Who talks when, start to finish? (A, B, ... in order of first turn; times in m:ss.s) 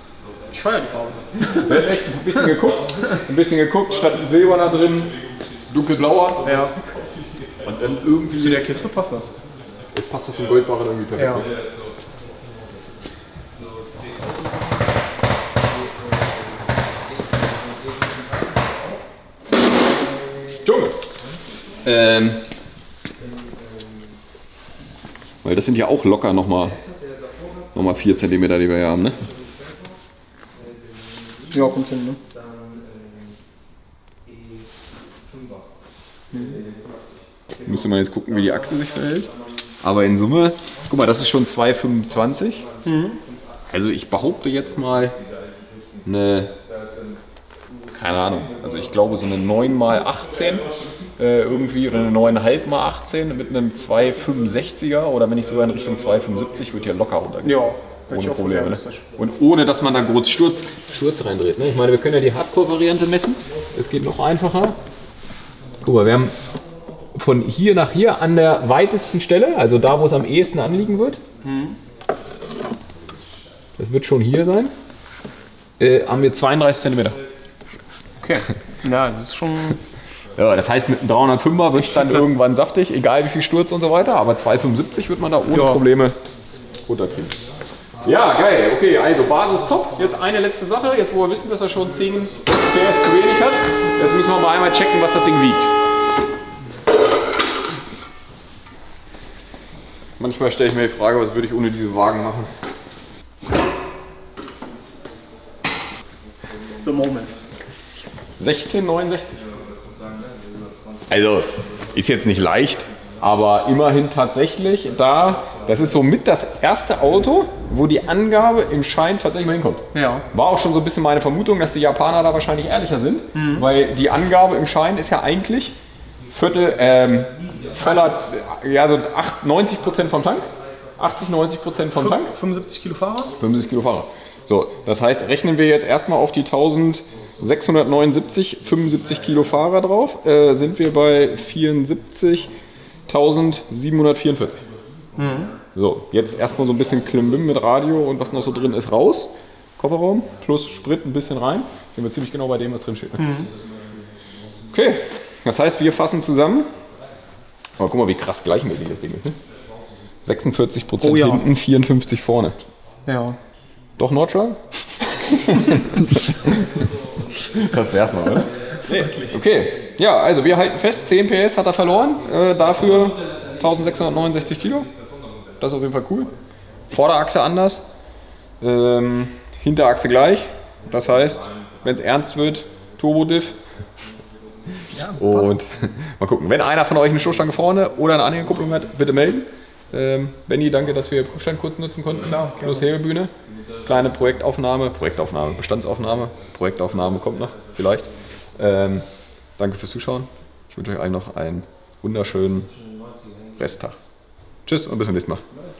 0:00.5-0:01.7 A
0:01.4-0:08.7 B
0:06.4-0:06.7 A
0:08.3-0:09.3 A
0:09.9-0:11.6 B
0:11.2-0:11.5 A
0:20.6-0:21.2 B
0:21.8-0:22.4 B
0:25.4-0:26.8 B
0:27.7-0:29.2 B
0:31.5-0:32.2 A
0:36.3-0:36.6 A
0:37.6-0:42.7 B
0:42.8-0:43.2 A
0:43.7-0:45.2 B
0:46.0-0:46.6 B
0:47.9-1:04.8 B
0:57.4-0:59.1 A
1:05.8-1:06.4 B
1:07.1-1:11.2 B
1:11.4-1:11.8 A
1:13.8-1:14.7 B
1:15.8-1:17.2 B
1:18.2-1:19.8 A
1:20.4-1:26.2 B
1:21.8-1:22.3 A
1:25.5-1:25.8 A
1:26.8-1:27.4 B
1:28.0-1:35.7 B
1:40.2-1:42.5 B
1:46.7-1:47.4 A
1:48.4-1:49.4 B
1:51.1-2:05.8 B
1:59.9-2:00.3 A
2:03.3-2:03.7 A
2:06.3-2:12.3 B
2:07.7-2:08.2 A
2:11.9-2:13.4 A
2:13.4-2:22.5 B
2:23.1-2:24.6 B
2:25.2-2:25.6 A
2:25.8-2:33.5 B
2:33.2-2:33.5 A
2:34.7-2:36.7 B
2:37.8-2:39.4 B
2:40.2-2:42.6 B
2:41.0-2:41.5 A
2:43.1-2:43.4 A
2:44.0-2:46.7 B
2:47.4-2:54.9 B
2:48.9-2:49.3 A
2:55.6-2:56.3 B
2:56.9-2:57.9 B
2:58.6-3:03.6 B
3:04.9-3:05.6 A
3:05.2-3:19.1 B
3:12.2-3:12.9 A
3:19.6-3:22.8 B
3:23.5-3:24.0 B
3:24.6-3:25.4 B